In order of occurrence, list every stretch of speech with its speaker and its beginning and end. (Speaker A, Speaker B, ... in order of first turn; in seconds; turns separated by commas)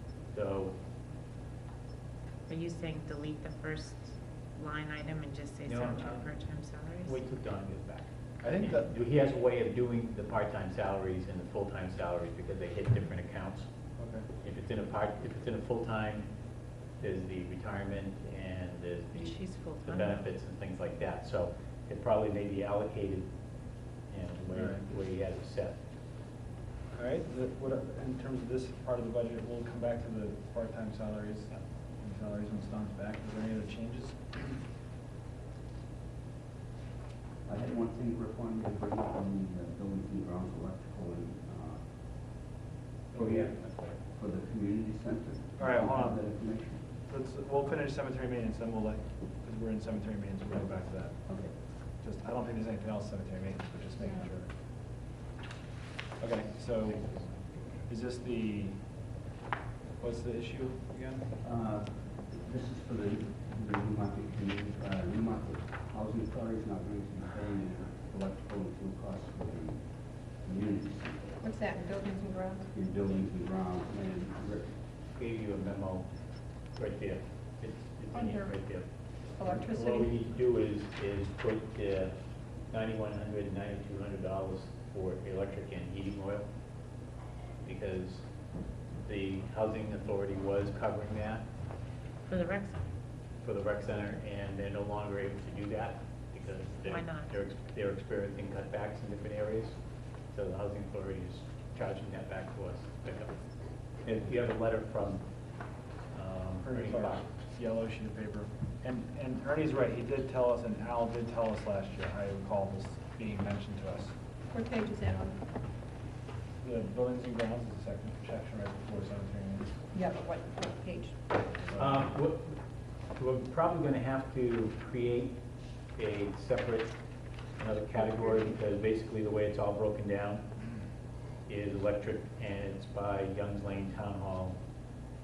Speaker A: 0.3-0.7, Speaker B: 2.5-7.2, Speaker A: 5.7-6.3, Speaker A: 7.0-13.7, Speaker C: 8.4-8.9, Speaker C: 14.0-14.3, Speaker A: 14.4-16.3, Speaker A: 17.0-23.3, Speaker B: 19.1-20.3, Speaker A: 24.1-25.8, Speaker C: 24.5-24.9, Speaker C: 26.9-34.6, Speaker D: 37.5-41.9, Speaker D: 43.1-46.9, Speaker C: 45.6-46.2, Speaker C: 47.1-51.3, Speaker D: 51.3-51.5, Speaker C: 52.0-54.5, Speaker C: 56.2-57.1, Speaker A: 57.1-57.6, Speaker C: 57.9-58.9, Speaker C: 60.0-61.3, Speaker D: 61.4-71.4, Speaker E: 71.4-72.7, Speaker D: 72.7-74.8, Speaker A: 75.2-76.1, Speaker A: 76.7-82.1, Speaker E: 78.1-78.6, Speaker E: 79.3-80.2, Speaker A: 82.7-86.5, Speaker A: 87.6-88.2, Speaker A: 89.0-91.5, Speaker B: 92.3-92.9, Speaker A: 93.4-99.8, Speaker B: 96.8-97.3, Speaker A: 100.3-103.4, Speaker A: 104.0-105.2, Speaker A: 106.1-107.3, Speaker C: 106.6-114.2, Speaker E: 114.5-115.4, Speaker C: 116.6-119.8, Speaker E: 119.9-121.3, Speaker C: 121.6-122.1, Speaker A: 121.8-122.6, Speaker A: 123.2-125.4, Speaker A: 126.0-127.0, Speaker A: 127.6-130.4, Speaker E: 128.0-128.6, Speaker A: 131.5-134.6